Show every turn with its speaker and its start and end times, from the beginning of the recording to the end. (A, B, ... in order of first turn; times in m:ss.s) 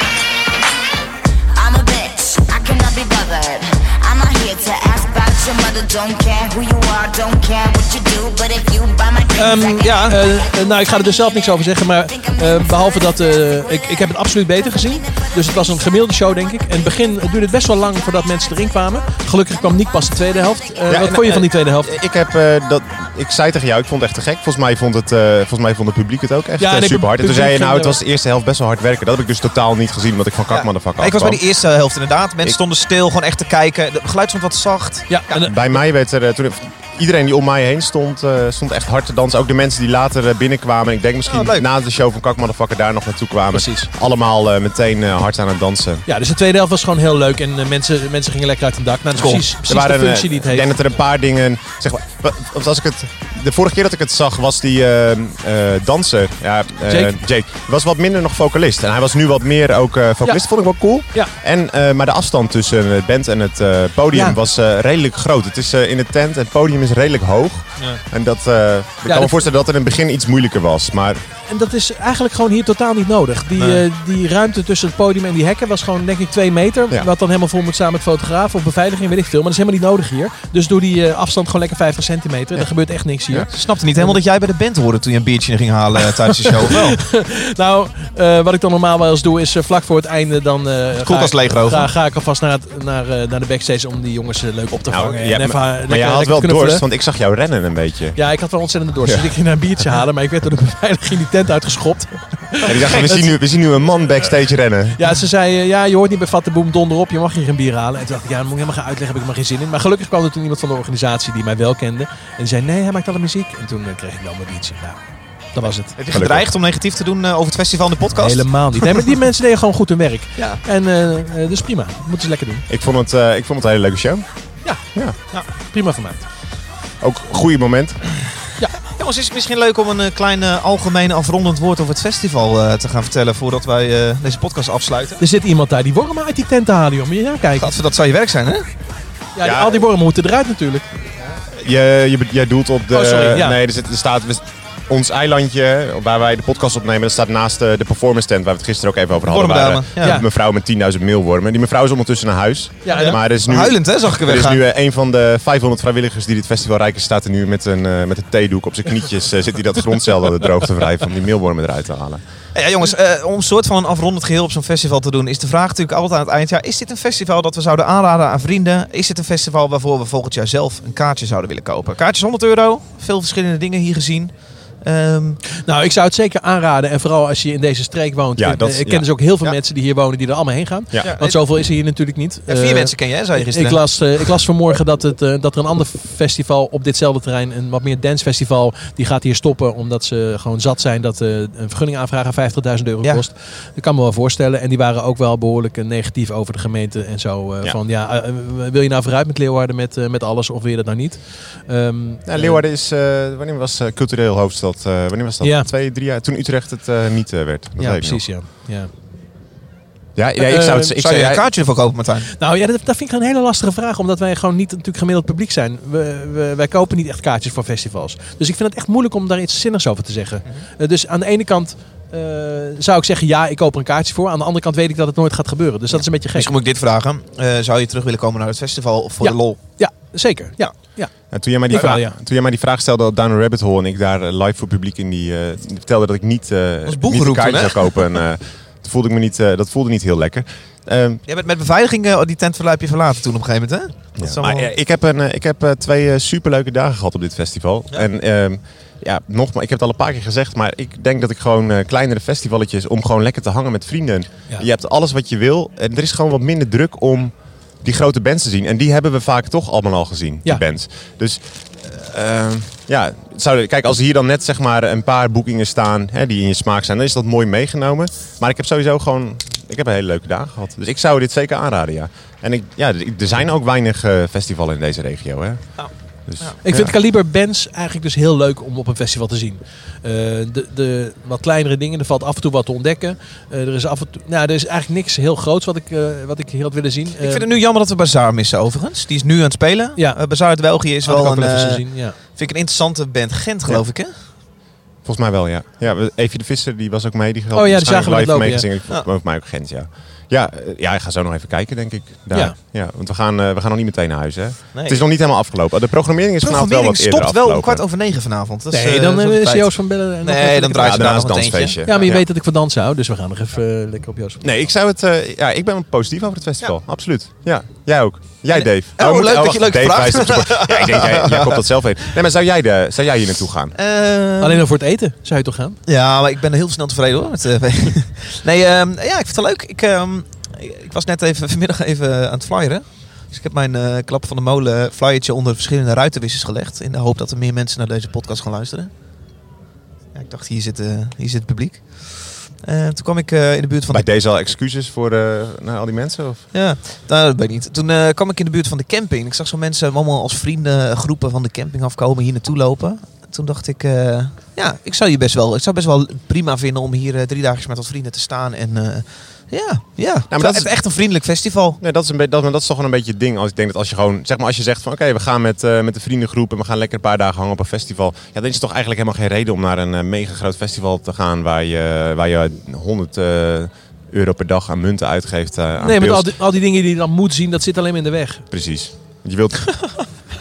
0:01.5-0:10.5 A
0:09.4-0:21.9 B
0:09.8-0:10.2 C
0:12.2-0:13.0 A
0:20.9-0:31.4 D
0:26.6-0:28.0 B
0:30.5-0:35.5 C
0:35.1-0:35.6 B
0:35.4-0:46.0 D
0:41.2-0:41.6 C
0:43.5-0:43.9 B
0:46.1-0:50.7 B
0:49.2-0:49.5 C
0:49.4-1:11.2 D
0:56.9-0:57.2 B
1:00.2-1:01.3 B
1:04.1-1:04.4 B
1:09.0-1:09.4 B
1:11.5-1:24.2 B
1:13.6-1:13.8 C
1:23.5-1:27.0 C
1:27.1-1:36.8 B
1:30.9-1:31.9 C
1:34.9-1:38.3 D
1:38.2-1:43.4 B
1:39.0-1:39.3 D
1:42.6-1:45.0 D
1:44.9-1:55.9 B
1:56.0-1:58.9 C
1:56.1-1:56.5 D
1:58.2-2:02.6 B
2:00.4-2:00.6 C
2:02.7-2:05.2 D
2:04.6-2:06.2 B
2:07.0-2:08.1 D
2:08.9-2:15.2 C
2:15.2-2:17.7 B
2:17.6-2:18.7 C
2:19.3-2:20.9 B
2:19.4-2:19.8 D
2:21.5-2:42.2 D
2:22.9-2:23.6 B
2:29.2-2:30.2 C
2:30.0-2:30.3 B
2:32.8-2:33.2 B
2:32.9-2:34.6 C
2:42.5-2:55.4 C
2:55.6-3:22.6 B
2:58.4-2:59.3 D
3:00.9-3:01.2 D
3:01.0-3:01.6 C
3:02.5-3:04.1 C
3:22.2-3:28.4 D
3:25.4-3:25.7 B
3:27.8-3:28.9 B
3:30.1-3:31.4 D
3:30.4-3:31.0 B
3:31.0-3:32.3 C
3:32.3-3:46.5 B
3:45.9-3:49.6 C
3:49.2-3:52.1 B
3:51.3-4:01.2 D
3:56.8-3:58.2 C
4:01.2-4:04.7 C
4:04.2-4:36.9 D
4:35.8-4:36.6 C
4:36.6-4:47.4 B
4:47.2-4:54.2 C
4:50.0-4:52.2 B
4:55.0-5:07.8 D
4:57.5-4:58.7 B
5:04.7-5:05.0 C
5:06.4-5:12.1 C
5:08.7-5:14.4 B
5:10.8-5:12.2 D
5:14.4-5:23.7 D
5:18.5-5:21.6 C
5:23.7-5:24.6 C
5:24.4-5:25.8 B
5:25.8-5:38.9 C
5:40.1-5:44.1 C
5:43.9-5:46.5 D
5:46.5-6:01.8 C
6:00.3-6:00.8 D
6:01.8-6:16.3 D
6:15.8-6:18.4 B
6:18.5-6:20.0 D